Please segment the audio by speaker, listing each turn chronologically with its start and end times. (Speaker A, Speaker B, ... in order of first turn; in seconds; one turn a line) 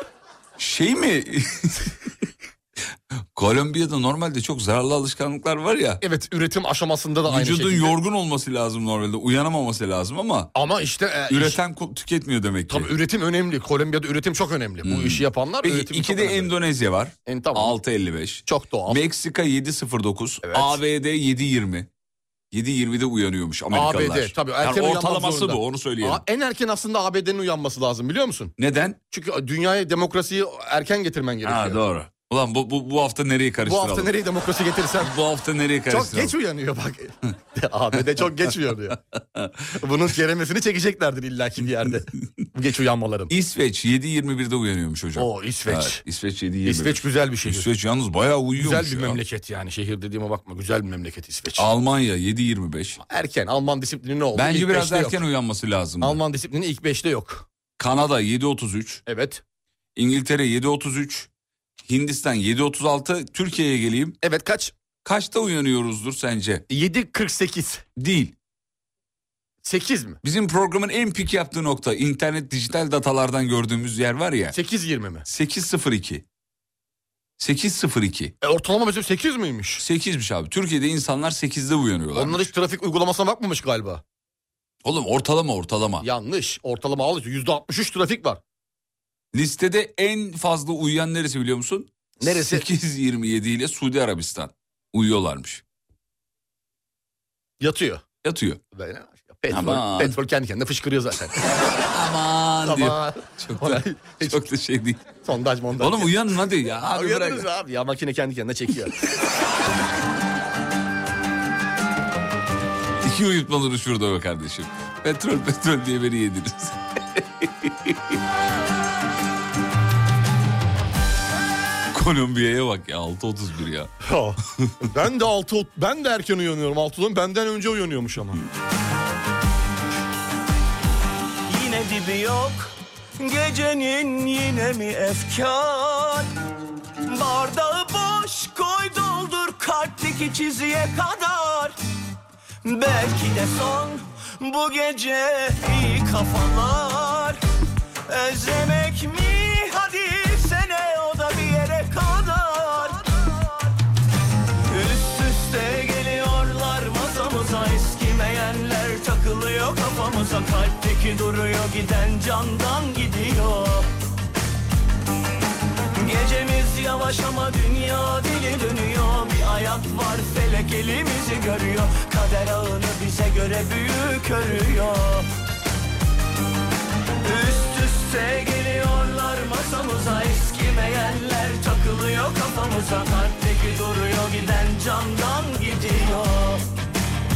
Speaker A: 0.6-1.9
Speaker A: 3.3-6.0
Speaker B: 6.0-8.0
Speaker A: 7.3-10.5
Speaker B: 10.6-11.6
Speaker A: 11.3-12.9
Speaker B: 12.7-16.5
Speaker A: 14.8-21.9
Speaker B: 17.3-17.8
Speaker B: 18.5-19.0
Speaker B: 20.4-20.8
Speaker A: 22.5-26.2
Speaker B: 23.7-28.5
Speaker A: 28.6-29.0
Speaker B: 29.1-31.8
Speaker A: 31.4-34.1
Speaker B: 33.6-35.1
Speaker A: 35.0-36.4
Speaker B: 35.9-39.0
Speaker A: 39.3-39.6
Speaker B: 39.8-43.3
Speaker A: 43.3-49.2
Speaker B: 45.2-46.0
Speaker B: 46.6-47.7
Speaker B: 48.6-51.7
Speaker A: 51.6-53.0
Speaker B: 53.0-55.2
Speaker A: 54.3-56.2
Speaker B: 56.0-57.5
Speaker A: 57.8-59.0
Speaker B: 59.1-59.4
Speaker A: 60.0-61.3
Speaker A: 61.8-64.2
Speaker B: 64.2-64.7
Speaker A: 65.0-66.7
Speaker B: 66.7-67.8
Speaker A: 68.0-68.3
Speaker B: 69.6-70.2
Speaker A: 70.2-74.6
Speaker B: 74.5-75.2
Speaker A: 75.3-76.2
Speaker A: 77.4-78.3
Speaker B: 78.4-79.8
Speaker A: 79.8-82.5
Speaker B: 82.2-84.0
Speaker A: 84.8-86.1
Speaker B: 86.0-88.4
Speaker A: 89.3-95.6
Speaker B: 92.2-92.6
Speaker B: 97.6-98.0
Speaker A: 98.2-98.6
Speaker B: 98.8-101.4
Speaker A: 99.5-100.2
Speaker A: 101.8-105.0
Speaker B: 102.7-104.4
Speaker B: 105.2-106.2
Speaker A: 105.8-107.5
Speaker B: 106.8-109.0
Speaker A: 113.0-118.2
Speaker A: 121.9-123.9
Speaker B: 124.0-128.4
Speaker C: 131.5-136.3
Speaker C: 137.1-141.8
Speaker C: 142.6-147.4
Speaker C: 148.1-153.4
Speaker C: 154.7-163.9
Speaker C: 165.9-175.3
Speaker C: 177.2-186.7